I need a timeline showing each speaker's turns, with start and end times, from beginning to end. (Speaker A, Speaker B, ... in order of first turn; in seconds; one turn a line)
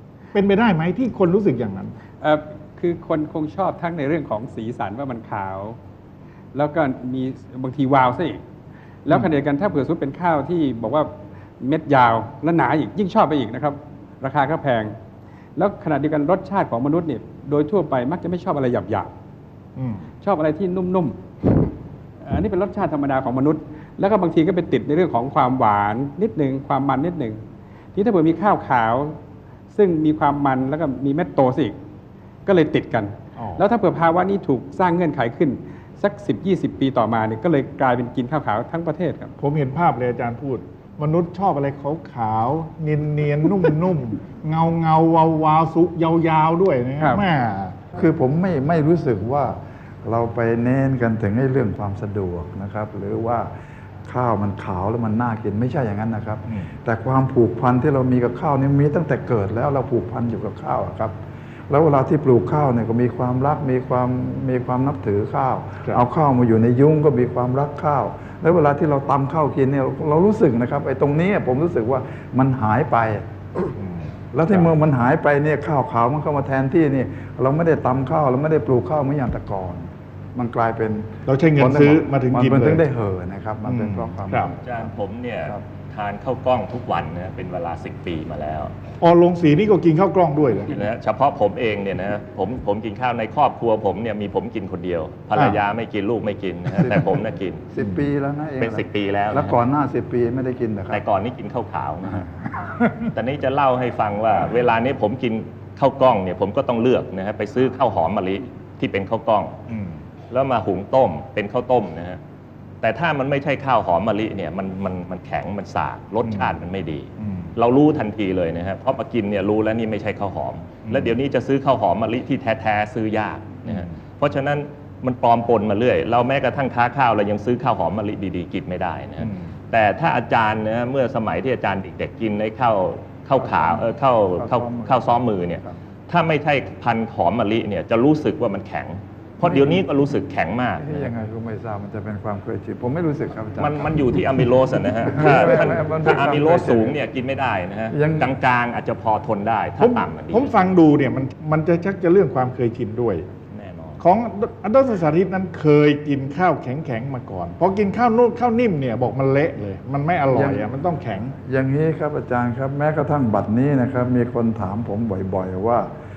Speaker A: 0.3-1.9
Speaker B: 2.2-5.8
Speaker B: 6.5-8.4
Speaker B: 9.1-14.9
Speaker B: 15.6-19.1
Speaker A: 19.8-20.1
Speaker B: 20.2-21.7
Speaker B: 22.2-27.4
Speaker B: 27.9-29.2
Speaker B: 29.7-31.8
Speaker B: 32.5-39.3
Speaker A: 33.4-33.6
Speaker A: 39.4-47.8
Speaker B: 47.0-47.2
Speaker C: 47.9-53.5
Speaker C: 54.0-61.2
Speaker C: 61.7-73.3
Speaker A: 73.8-74.7
Speaker C: 74.3-85.6
Speaker A: 81.2-82.8
Speaker A: 83.7-84.5
Speaker D: 84.6-88.7
Speaker A: 89.0-90.8
Speaker D: 90.7-97.6
Speaker C: 96.8-97.1
Speaker C: 97.7-101.0
Speaker D: 98.6-99.5
Speaker D: 100.9-102.3
Speaker D: 103.1-109.5
Speaker A: 109.7-110.0
Speaker D: 110.3-112.2
Speaker D: 112.8-141.1
Speaker A: 116.2-116.5
Speaker A: 117.2-117.5
Speaker A: 120.8-121.2
Speaker A: 123.6-123.9
Speaker A: 129.2-129.5
Speaker C: 133.4-135.8
Speaker C: 139.4-139.8
Speaker C: 140.8-144.5
Speaker D: 143.6-150.7
Speaker C: 145.0-147.0
Speaker C: 147.9-148.3
Speaker A: 149.8-153.3
Speaker D: 153.5-154.0
Speaker A: 154.0-161.3
Speaker C: 160.3-160.7
Speaker C: 161.3-165.9